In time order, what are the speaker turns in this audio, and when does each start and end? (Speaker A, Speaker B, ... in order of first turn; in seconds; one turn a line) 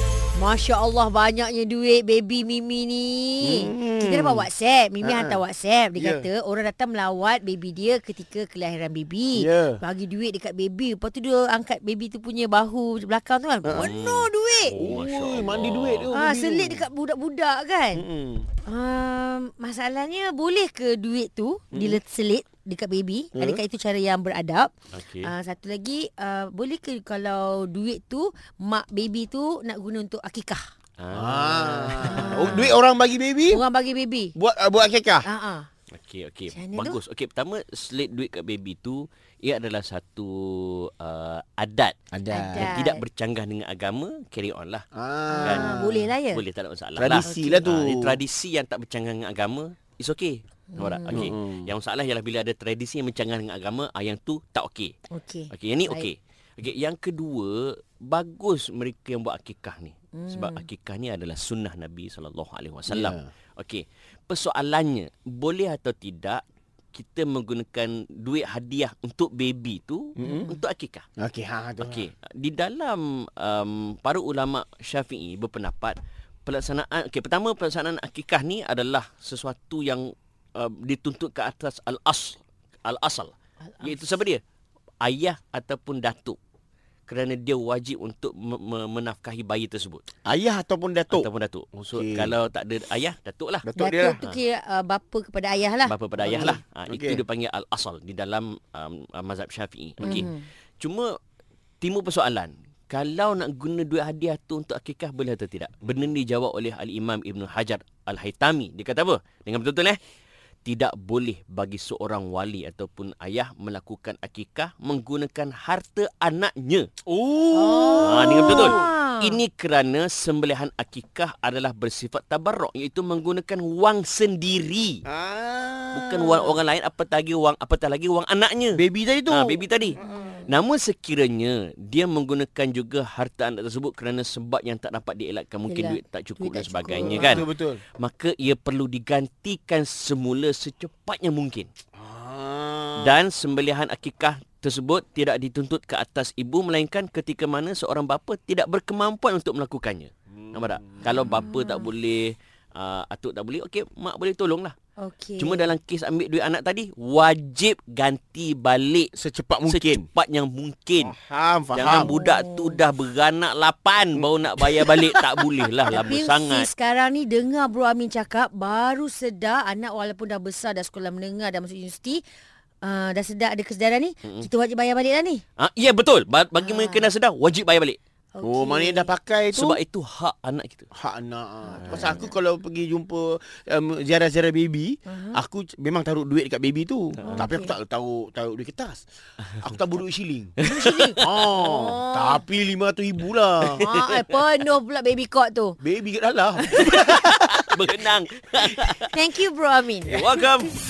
Speaker A: 0.4-14.8
Speaker B: 3.4-4.5
Speaker B: 5.0-5.4
Speaker B: 6.0-6.3
Speaker B: 9.4-9.8
Speaker B: 13.6-13.9
Speaker C: 13.7-16.1
Speaker B: 14.7-16.9
Speaker A: 16.1-18.1
Speaker B: 17.9-18.5
Speaker A: 18.7-30.6
Speaker B: 21.7-22.0
Speaker B: 23.4-23.6
Speaker C: 24.9-25.3
Speaker C: 31.0-32.8
Speaker B: 31.1-33.6
Speaker A: 32.0-32.8
Speaker A: 33.5-34.3
Speaker B: 34.4-35.3
Speaker A: 35.2-35.7
Speaker C: 35.9-42.0
Speaker A: 36.5-37.0
Speaker B: 42.1-42.8
Speaker A: 42.3-43.0
Speaker C: 42.5-44.9
Speaker B: 45.0-46.1
Speaker A: 45.3-46.4
Speaker C: 45.4-45.8
Speaker C: 46.3-54.9
Speaker B: 47.0-48.2
Speaker A: 47.2-47.7
Speaker A: 50.7-51.3
Speaker B: 51.1-51.7
Speaker A: 55.1-56.1
Speaker C: 55.5-66.4
Speaker A: 60.1-60.6
Speaker B: 62.9-63.3
Speaker C: 66.9-71.0
Speaker B: 70.2-70.6
Speaker A: 70.2-70.5
Speaker B: 71.2-72.1
Speaker C: 71.8-84.4
Speaker C: 85.0-86.4
Speaker C: 87.1-90.1
Speaker B: 90.2-92.3
Speaker C: 91.1-93.7
Speaker B: 93.6-94.2
Speaker A: 93.8-96.6
Speaker C: 95.9-101.1
Speaker B: 96.2-97.2
Speaker B: 100.0-100.3
Speaker A: 100.0-100.4
Speaker C: 101.8-110.0
Speaker C: 110.7-116.9
Speaker B: 117.1-118.9
Speaker A: 117.5-119.4
Speaker C: 118.0-125.0
Speaker B: 125.1-126.5
Speaker C: 125.9-137.5
Speaker B: 128.8-130.1
Speaker A: 130.0-130.5
Speaker A: 135.7-137.5
Speaker B: 136.9-137.8
Speaker C: 138.0-141.7
Speaker B: 142.0-143.2
Speaker C: 143.0-154.8
Speaker B: 150.5-151.2
Speaker A: 151.0-151.9
Speaker A: 155.0-155.7
Speaker C: 155.4-159.1
Speaker B: 159.2-160.1
Speaker C: 159.7-161.2
Speaker B: 161.0-162.1
Speaker C: 161.7-166.7
Speaker A: 161.8-162.8
Speaker B: 164.2-165.1
Speaker B: 165.9-166.1
Speaker A: 165.9-172.2
Speaker A: 172.8-175.4
Speaker C: 175.6-178.0
Speaker A: 176.6-177.1
Speaker A: 178.3-179.1
Speaker B: 178.4-179.8
Speaker C: 179.5-180.9
Speaker B: 181.0-190.5
Speaker A: 181.8-182.3
Speaker C: 181.9-182.2
Speaker A: 185.1-185.4
Speaker A: 187.2-187.8
Speaker A: 190.6-192.4
Speaker C: 190.7-191.2
Speaker B: 191.2-193.8
Speaker C: 193.7-194.2
Speaker A: 193.8-195.8
Speaker B: 195.8-197.7
Speaker C: 196.8-199.1
Speaker A: 199.1-200.2
Speaker C: 200.1-200.7